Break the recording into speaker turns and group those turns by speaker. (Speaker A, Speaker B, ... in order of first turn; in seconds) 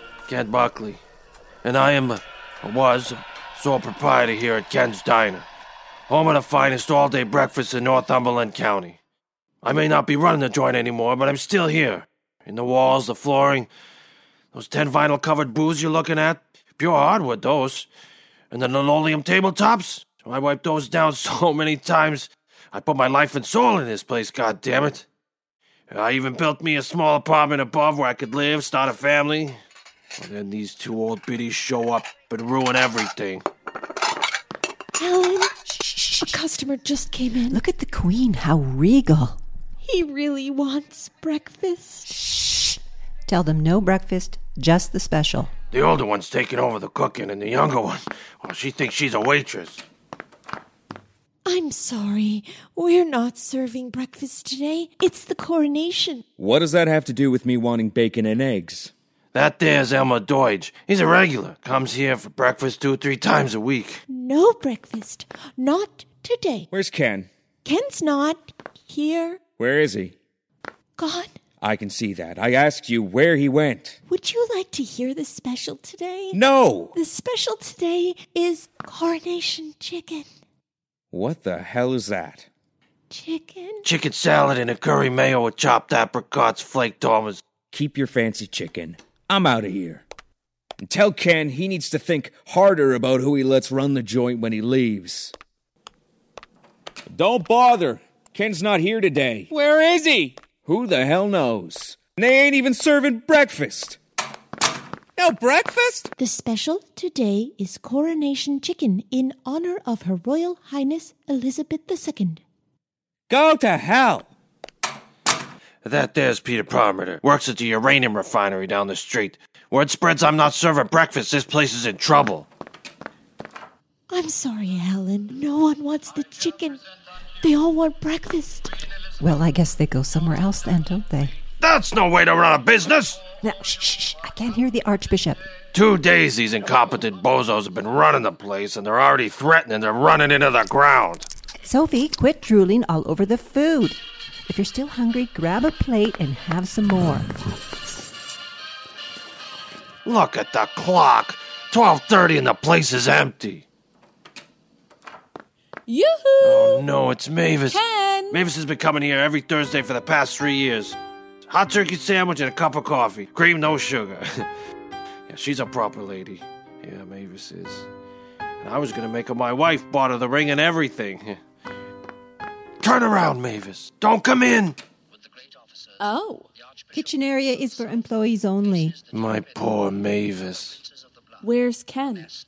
Speaker A: 0.3-1.0, 1.6-5.5, 6.1-9.0, 9.6-13.7, 14.5-17.9, 18.5-25.1, 25.9-29.6, 30.2-33.5, 45.7-49.8, 59.3-64.0, 83.8-87.4, 115.8-122.5, 131.6-133.2, 135.7-141.3, 150.1-153.7, 156.4-157.8, 158.3-161.0, 161.5-164.5, 165.3-167.9, 168.6-171.4, 172.8-174.8, 179.1-180.8
Speaker B: 35.0-37.6, 39.8-42.5, 51.5-56.2, 64.1-66.7, 67.7-69.4, 71.0-71.3, 74.1-76.4, 77.0-80.3, 83.1-83.8, 106.2-112.4, 124.1-126.8, 127.4-128.7
Speaker C: 37.4-39.4, 43.3-45.5, 129.2-131.3, 133.4-135.5, 141.7-147.3, 176.9-179.0
Speaker D: 56.4-58.9, 66.7-67.3, 69.6-70.2, 71.6-74.0, 76.3-77.0, 81.1-82.5, 87.7-90.0, 90.8-95.3, 97.1-104.0, 105.2-106.1, 113.3-114.3
Speaker E: 155.9-156.9, 157.7-158.4, 176.0-176.5, 181.4-182.4